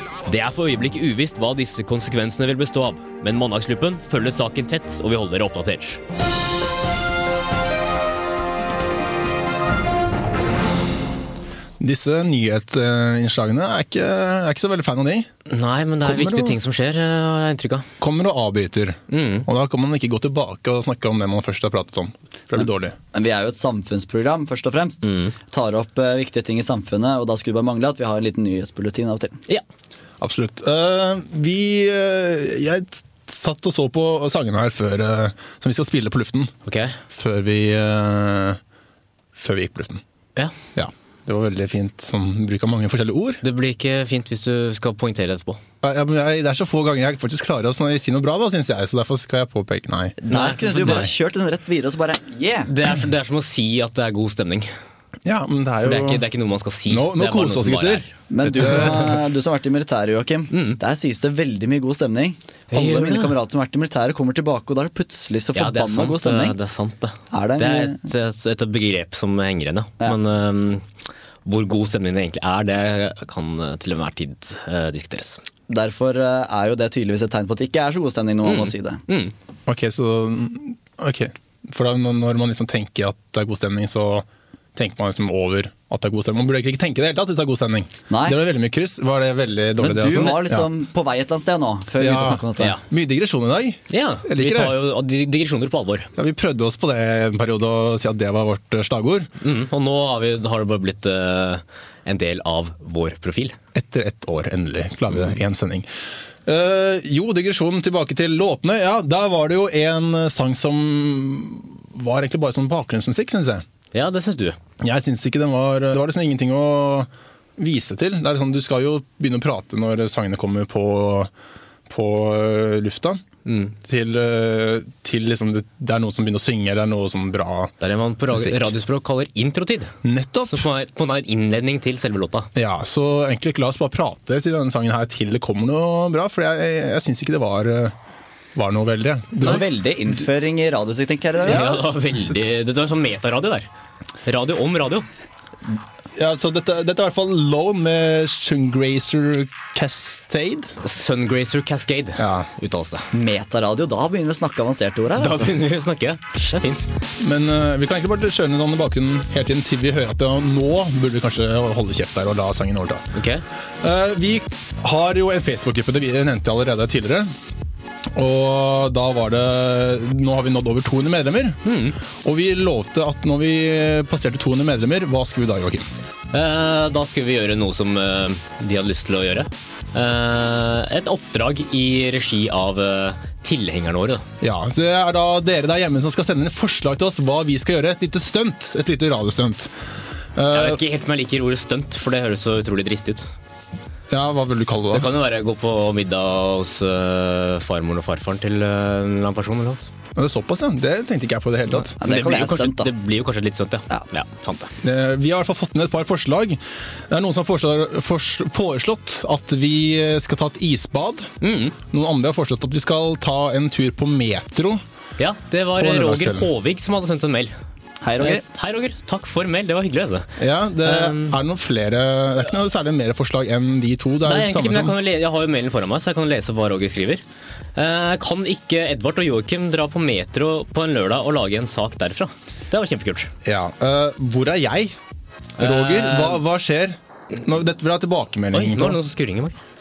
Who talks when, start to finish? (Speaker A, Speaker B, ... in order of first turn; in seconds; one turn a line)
Speaker A: 0.2-6.0
Speaker B: 11.8-15.3
Speaker A: 15.5-17.9
Speaker B: 16.0-16.6
Speaker B: 18.0-22.9
Speaker A: 19.1-19.5
Speaker C: 23.1-29.4
Speaker A: 25.0-25.3
Speaker B: 30.2-36.5
Speaker A: 36.6-37.0
Speaker B: 37.1-38.6
Speaker B: 39.3-40.0
Speaker B: 40.7-43.4
Speaker A: 43.4-45.6
Speaker B: 45.8-51.1
Speaker C: 50.2-52.7
Speaker A: 50.3-51.1
Speaker A: 52.7-54.7
Speaker B: 55.2-56.2
Speaker A: 55.8-58.9
Speaker B: 56.9-59.1
Speaker C: 58.3-66.5
Speaker A: 60.5-60.8
Speaker A: 62.7-63.4
Speaker A: 65.5-70.8
Speaker C: 67.3-68.0
Speaker A: 71.4-75.4
Speaker C: 75.7-79.0
Speaker A: 78.4-79.3
Speaker B: 79.7-90.7
Speaker C: 88.1-88.4
Speaker C: 89.8-92.8
Speaker B: 92.0-94.8
Speaker A: 93.9-96.1
Speaker B: 96.2-99.3
Speaker A: 99.4-103.6
Speaker B: 103.7-105.9
Speaker B: 106.4-113.6
Speaker A: 113.9-114.6
Speaker B: 114.8-121.3
Speaker B: 121.9-123.2
Speaker A: 123.5-123.7
Speaker B: 123.8-127.7
Speaker A: 127.8-129.9
Speaker B: 128.3-128.7
Speaker B: 130.0-130.7
Speaker A: 130.5-132.5
Speaker B: 132.5-137.9
Speaker B: 138.5-139.6
Speaker C: 139.4-141.8
Speaker A: 141.4-143.7
Speaker A: 144.2-145.1
Speaker B: 146.2-150.7
Speaker A: 150.8-153.0
Speaker B: 152.2-152.5
Speaker C: 153.1-155.6
Speaker A: 155.2-156.9
Speaker B: 157.2-163.0
Speaker A: 163.1-163.4
Speaker B: 163.8-167.3
Speaker B: 168.1-171.6
Speaker A: 171.6-172.0
Speaker B: 172.2-175.9
Speaker A: 176.3-184.2
Speaker B: 184.4-189.7
Speaker B: 190.3-190.8
Speaker A: 190.5-193.3
Speaker B: 194.1-195.1
Speaker A: 194.9-199.9
Speaker B: 200.2-202.0
Speaker A: 201.8-204.7
Speaker C: 202.0-202.9
Speaker B: 204.8-211.3
Speaker A: 211.4-211.8
Speaker B: 211.8-214.8
Speaker A: 215.2-217.5
Speaker B: 215.8-216.5
Speaker C: 218.0-218.4
Speaker A: 218.2-220.3
Speaker B: 220.4-224.9
Speaker A: 220.8-221.3
Speaker A: 224.2-227.2
Speaker A: 227.7-233.3
Speaker B: 233.4-234.9
Speaker B: 235.6-239.0
Speaker A: 235.6-236.4
Speaker A: 238.5-239.6